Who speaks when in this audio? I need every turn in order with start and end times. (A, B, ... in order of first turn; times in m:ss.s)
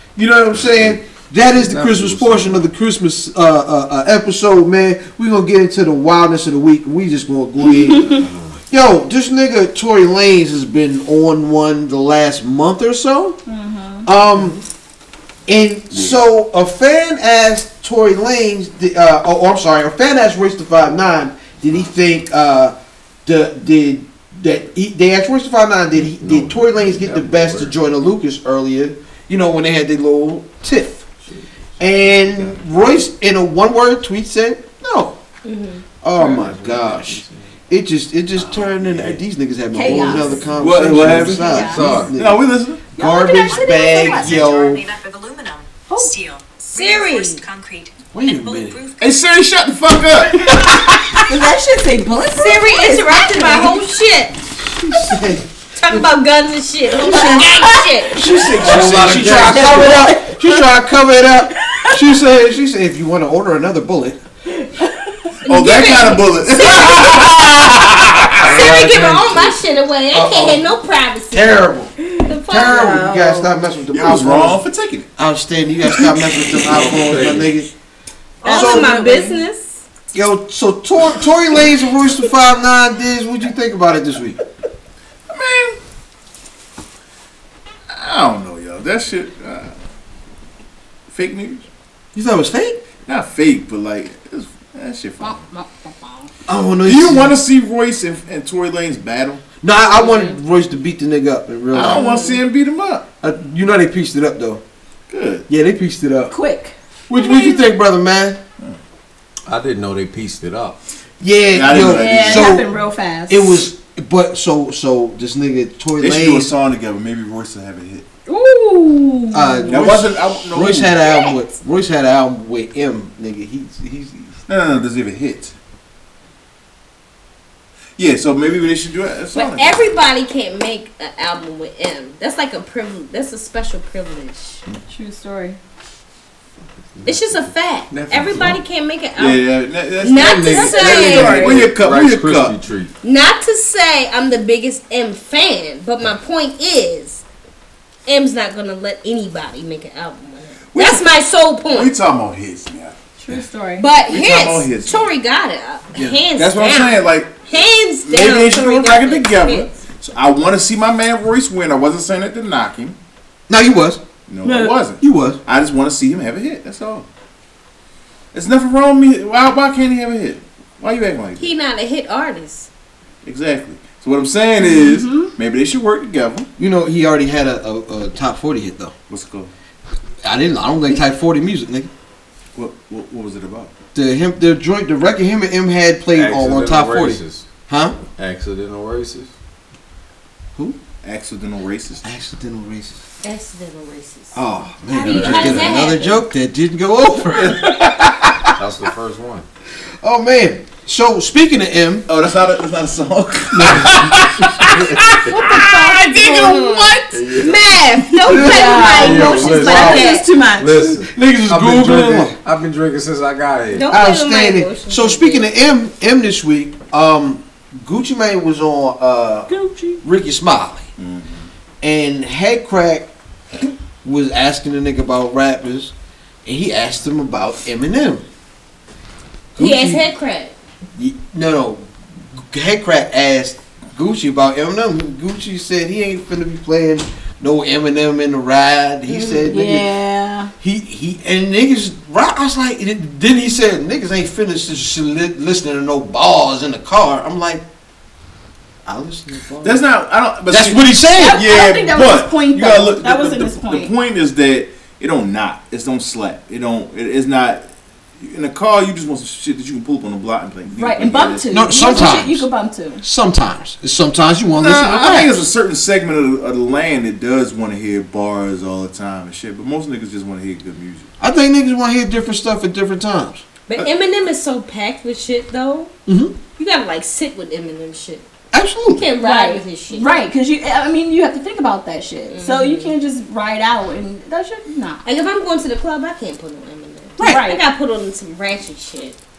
0:00.2-0:13.4 A
0:01.5-0:02.7 B
0:08.2-0:08.6 B
0:13.5-0:14.1 C
0:14.0-0:14.6 A
0:15.5-0:31.0 A
0:26.0-0:27.8 B
0:31.2-0:32.6 B
0:31.8-0:35.2 A
0:35.4-0:35.8 D
0:36.0-0:44.8 A
0:36.2-0:37.5 B
0:38.4-0:39.2 B
0:39.7-0:42.1 C
0:40.6-0:42.8 E
0:41.5-0:42.1 B
0:43.0-0:44.5 C
0:43.3-0:49.1 F
0:46.7-0:47.4 D
0:48.1-0:48.8 A
0:49.0-0:51.3 E
0:51.3-0:53.8 C
0:52.4-0:54.3 D
0:54.7-0:55.4 A
0:55.8-0:58.2 D
0:56.9-1:04.2 A
0:57.1-0:57.4 C
0:58.5-0:59.9 B
0:58.9-1:00.6 C
1:05.4-1:07.3 D
1:05.5-1:08.4 E
1:08.4-1:09.6 B
1:08.4-1:11.7 D
1:10.1-1:10.7 A
1:11.3-1:11.9 A
1:12.3-1:13.2 D
1:12.5-1:14.6 A
1:12.7-1:13.5 C
1:13.9-1:15.1 E
1:15.2-1:17.7 A
1:16.7-1:17.5 B
1:18.4-1:19.4 C
1:18.4-1:19.8 D
1:18.5-1:18.9 A
1:20.1-1:24.4 A
1:25.3-1:25.8 E
1:27.9-1:29.7 E
1:31.1-1:31.7 E
1:32.2-1:32.8 A
1:33.1-1:35.4 E
1:35.2-1:36.1 C
1:36.5-1:37.4 A
1:36.8-1:39.4 E
1:39.6-1:42.1 A
1:40.0-1:40.3 D
1:41.7-1:43.1 E
1:42.0-1:42.4 C
1:43.2-1:44.6 A
1:45.1-1:45.5 E
1:45.5-1:46.4 A
1:46.3-1:47.7 C
1:47.1-1:48.4 A
1:49.5-1:50.8 B
1:51.2-1:52.7 A
1:51.5-1:52.6 E
1:51.7-1:53.7 C
1:53.3-1:56.5 A
1:56.0-1:58.1 E
1:58.3-1:59.9 C
1:59.3-2:04.3 A
1:59.7-2:01.0 E
2:01.0-2:01.4 C
2:04.5-2:05.5 E
2:08.0-2:09.8 E
2:09.3-2:14.6 D
2:14.9-2:15.6 C
2:17.0-2:19.5 D
2:17.9-2:18.6 B
2:19.2-2:22.6 E
2:20.0-2:21.7 D
2:20.1-2:22.9 B
2:23.0-2:27.2 D
2:28.1-2:31.9 D
2:30.7-2:31.1 E
2:31.7-2:33.0 E
2:33.2-2:33.9 C
2:33.8-2:39.7 D
2:34.0-2:35.1 E
2:36.4-2:37.4 E
2:38.0-2:43.0 E
2:43.5-2:44.0 A
2:44.3-2:47.1 E
2:45.0-2:45.4 A
2:48.3-2:51.5 E
2:51.4-2:52.7 D
2:53.2-2:56.5 E
2:54.6-2:55.3 C
2:56.6-2:58.9 A
2:59.1-2:59.5 E
3:00.2-3:01.9 A
3:02.6-3:03.7 E
3:04.0-3:08.0 A
3:06.1-3:07.5 B
3:08.2-3:09.3 B
3:11.0-3:12.0 E
3:12.0-3:13.0 A
3:13.2-3:14.4 D
3:14.3-3:18.5 A
3:14.9-3:16.2 D
3:15.1-3:15.6 E
3:15.1-3:15.7 B
3:18.6-3:19.4 B
3:20.0-3:22.0 A
3:22.1-3:26.9 E
3:23.5-3:24.0 A
3:23.7-3:25.3 B
3:25.4-3:30.2 D
3:25.5-3:26.6 C
3:27.1-3:27.6 B
3:28.0-3:30.9 C
3:28.3-3:30.2 A
3:28.9-3:33.9 B
3:31.0-3:32.4 A
3:33.7-3:35.5 D
3:33.9-3:39.5 A
3:39.5-3:40.0 C
3:40.0-3:40.9 A
3:41.0-3:41.5 E
3:41.8-3:43.1 A
3:44.0-3:45.9 A
3:46.4-3:48.2 A
3:49.6-3:50.0 A
3:49.6-3:50.6 D
3:51.0-4:00.0 A
3:59.2-4:00.5 C
4:00.6-4:07.6 A
4:08.8-4:09.8 A
4:09.6-4:17.6 E
4:10.5-4:11.5 A
4:11.2-4:13.9 C
4:18.2-4:22.2 E
4:20.8-4:23.0 C
4:21.5-4:22.5 A
4:23.0-4:25.4 A
4:24.6-4:31.1 E
4:31.2-4:33.4 A
4:33.7-4:35.9 D
4:36.1-4:36.4 A
4:36.6-4:38.3 D
4:38.5-4:39.1 A
4:38.9-4:40.2 D
4:39.2-4:45.0 C
4:42.3-4:43.0 D
4:45.0-4:49.2 D
4:47.2-4:47.5 A
4:47.2-4:47.6 C